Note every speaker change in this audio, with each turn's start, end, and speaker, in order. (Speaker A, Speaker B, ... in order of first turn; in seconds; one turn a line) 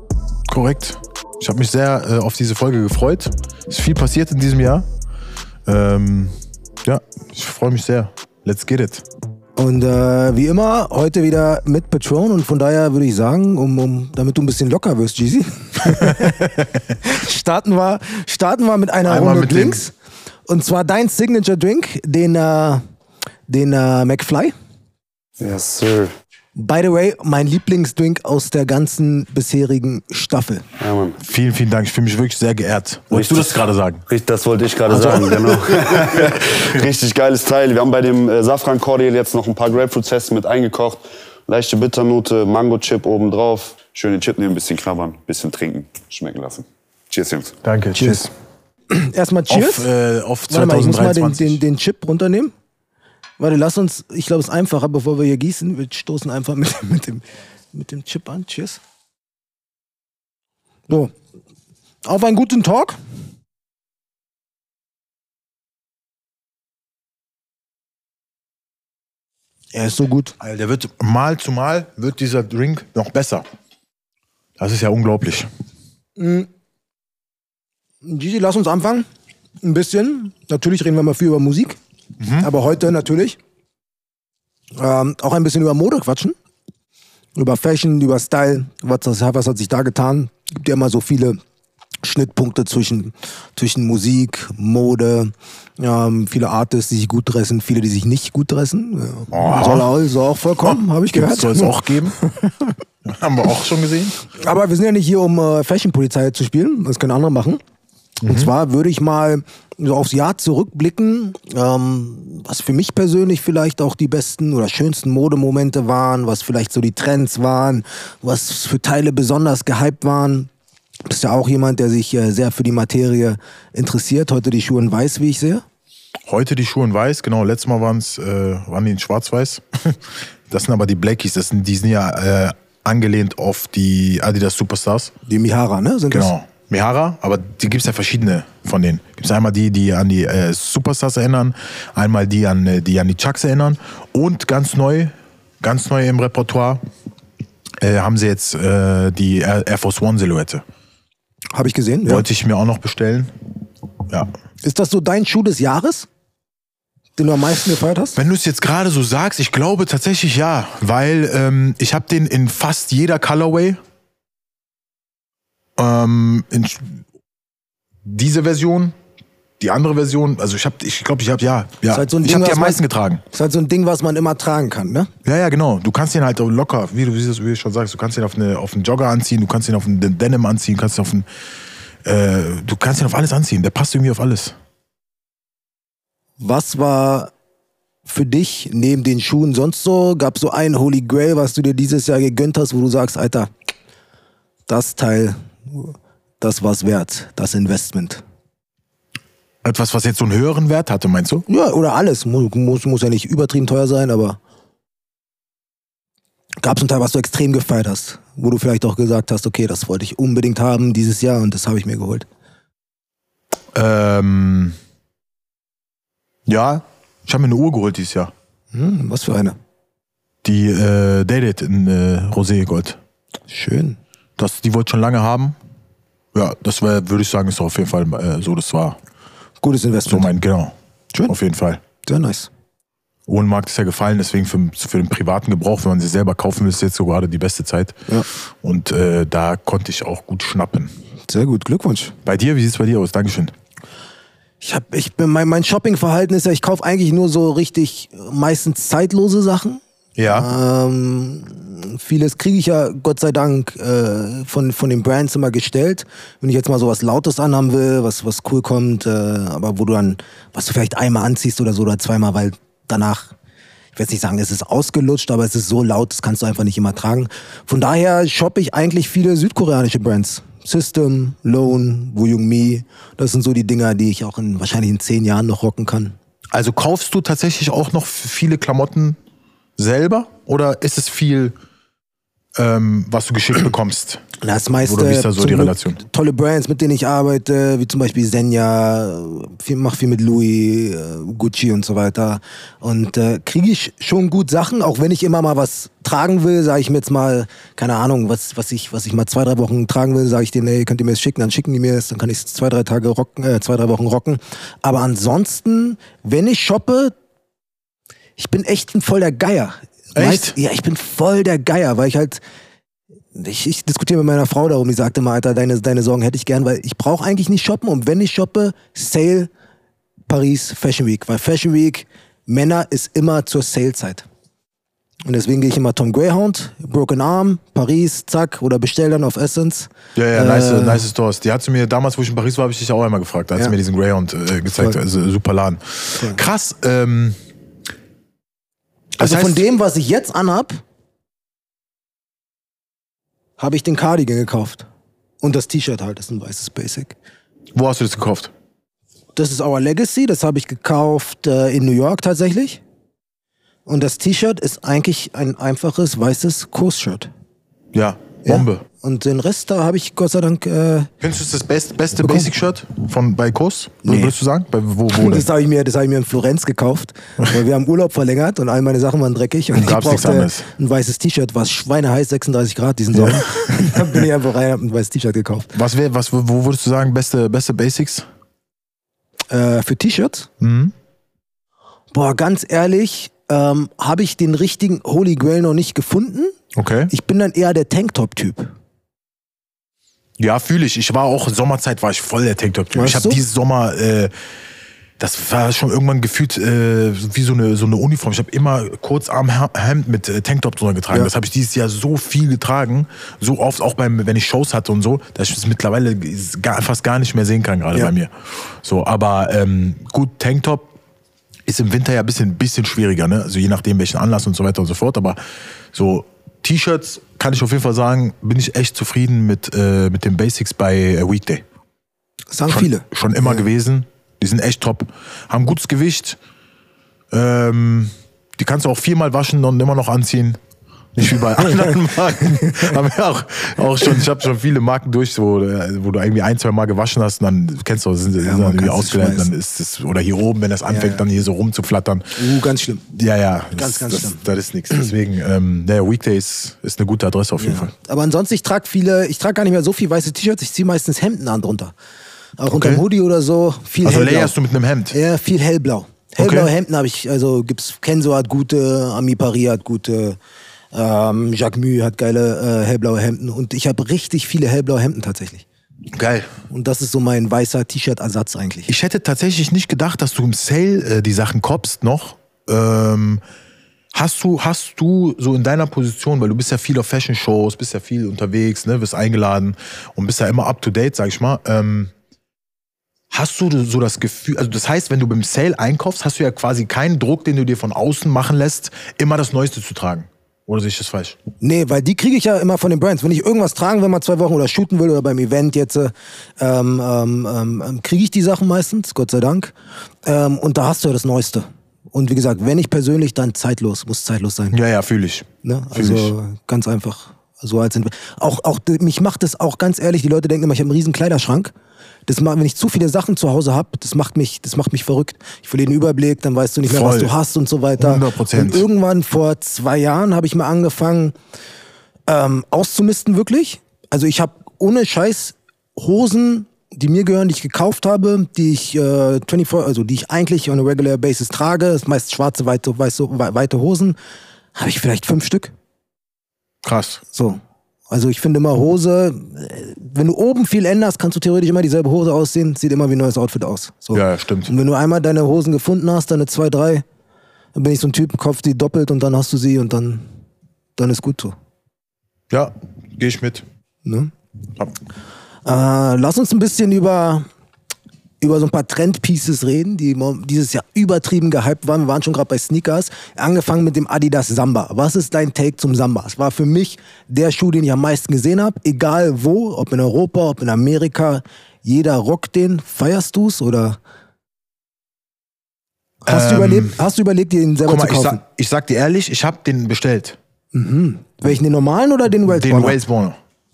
Speaker A: 0.5-4.8
Speaker A: 5.7-9.0
Speaker B: 9.6-19.9
Speaker A: 15.9-16.7
Speaker A: 19.1-19.8
Speaker B: 20.5-22.8
Speaker B: 23.5-24.5
Speaker C: 25.4-26.1
Speaker B: 26.6-30.6
Speaker C: 30.8-31.2
Speaker A: 31.2-34.0
Speaker C: 33.1-33.6
Speaker C: 34.1-47.5
Speaker A: 34.9-36.4
Speaker A: 47.6-48.3
Speaker B: 48.0-48.2
Speaker B: 48.9-49.9
Speaker A: 49.5-51.6
Speaker B: 50.5-52.5
Speaker B: 53.4-58.8
Speaker B: 62.0-63.0
Speaker B: 69.7-70.3
Speaker A: 70.4-73.4
Speaker A: 74.6-75.5
Speaker B: 76.2-76.5
Speaker B: 78.0-79.0
Speaker B: 79.6-81.8
Speaker A: 82.2-82.5
Speaker B: 82.4-83.4
Speaker B: 84.8-86.3
Speaker B: 87.3-91.4
Speaker B: 92.0-102.5
Speaker A: 99.3-99.9
Speaker A: 100.6-102.2
Speaker A: 103.0-104.2
Speaker B: 104.3-107.6
Speaker A: 108.2-108.5
Speaker B: 108.2-120.5
Speaker B: 121.0-125.6
Speaker A: 126.3-135.1
Speaker B: 135.2-136.3
Speaker A: 136.1-146.8
Speaker A: 147.8-150.6
Speaker B: 151.5-152.2
Speaker A: 152.1-153.3
Speaker B: 154.6-156.1
Speaker B: 157.2-158.2
Speaker A: 158.2-163.8
Speaker A: 165.8-167.0
Speaker A: 168.0-168.9
Speaker A: 169.6-173.2
Speaker B: 171.9-172.8
Speaker B: 173.3-175.1
Speaker A: 175.2-181.2
Speaker A: 182.0-184.6
Speaker B: 186.4-187.3
Speaker B: 188.1-193.5
Speaker B: 194.7-198.2
Speaker A: 199.6-201.4
Speaker B: 201.5-204.4
Speaker B: 206.6-212.3
Speaker A: 213.7-214.8
Speaker A: 216.5-218.3
Speaker B: 218.7-219.6
Speaker A: 220.4-223.0
Speaker B: 223.5-224.0
Speaker A: 224.4-225.6
Speaker A: 226.3-229.0
Speaker B: 229.6-230.3
Speaker A: 230.1-230.7
Speaker A: 231.3-231.8
Speaker B: 232.0-232.5
Speaker A: 233.3-240.9
Speaker B: 241.3-242.1
Speaker A: 242.2-243.5
Speaker B: 244.6-263.3
Speaker A: 250.2-250.5
Speaker B: 263.9-276.1
Speaker A: 276.5-279.2
Speaker A: 279.8-281.5
Speaker A: 282.6-284.2
Speaker B: 284.4-307.1
Speaker A: 284.8-286.0
Speaker B: 308.4-312.4
Speaker A: 310.1-310.6
Speaker B: 313.3-319.5
Speaker B: 320.3-324.2
Speaker B: 325.2-331.1
Speaker A: 330.1-337.4
Speaker B: 334.7-335.0
Speaker A: 339.2-339.6
Speaker B: 339.2-340.8
Speaker B: 343.6-344.9
Speaker B: 345.4-347.1
Speaker A: 347.7-348.5
Speaker B: 349.4-352.8
Speaker B: 353.9-357.3
Speaker A: 357.9-358.8
Speaker B: 358.4-361.1
Speaker A: 361.2-365.4
Speaker B: 362.2-362.5
Speaker B: 364.0-364.3
Speaker B: 365.1-375.7
Speaker A: 369.7-370.7
Speaker A: 373.1-374.2
Speaker A: 375.7-378.3
Speaker B: 379.5-380.5
Speaker A: 380.6-380.9
Speaker B: 382.1-386.5
Speaker A: 386.7-387.1
Speaker B: 387.1-388.7
Speaker A: 390.4-394.3
Speaker B: 392.9-393.4
Speaker A: 395.2-410.9
Speaker A: 411.7-415.4
Speaker A: 415.9-421.6
Speaker B: 422.5-423.6
Speaker A: 422.7-426.4
Speaker A: 427.3-430.6
Speaker A: 431.1-442.4
Speaker B: 438.4-439.5
Speaker B: 440.9-441.2
Speaker B: 442.4-443.0
Speaker A: 443.1-447.9
Speaker B: 443.8-445.1
Speaker B: 447.6-451.9
Speaker B: 452.6-454.5
Speaker A: 452.7-453.0
Speaker A: 454.0-455.1
Speaker B: 455.1-460.4
Speaker A: 456.4-456.7
Speaker B: 460.9-465.6
Speaker A: 466.1-466.5
Speaker B: 466.7-468.9
Speaker A: 468.9-473.4
Speaker A: 474.1-482.1
Speaker A: 483.3-491.4
Speaker B: 491.6-499.7
Speaker B: 500.2-504.8
Speaker A: 504.7-506.3
Speaker B: 505.6-511.7
Speaker B: 512.3-521.3
Speaker A: 516.8-517.3
Speaker A: 518.0-518.8
Speaker B: 522.3-534.1
Speaker B: 534.8-535.7
Speaker A: 536.8-537.2
Speaker B: 537.3-547.0
Speaker A: 544.1-544.7
Speaker B: 547.7-550.2
Speaker B: 551.0-551.5
Speaker A: 552.5-553.6
Speaker B: 554.0-554.3
Speaker B: 555.6-557.5
Speaker B: 558.4-574.0
Speaker B: 576.2-578.4
Speaker A: 576.3-577.0
Speaker A: 577.8-580.4
Speaker B: 580.7-583.0
Speaker A: 582.5-583.4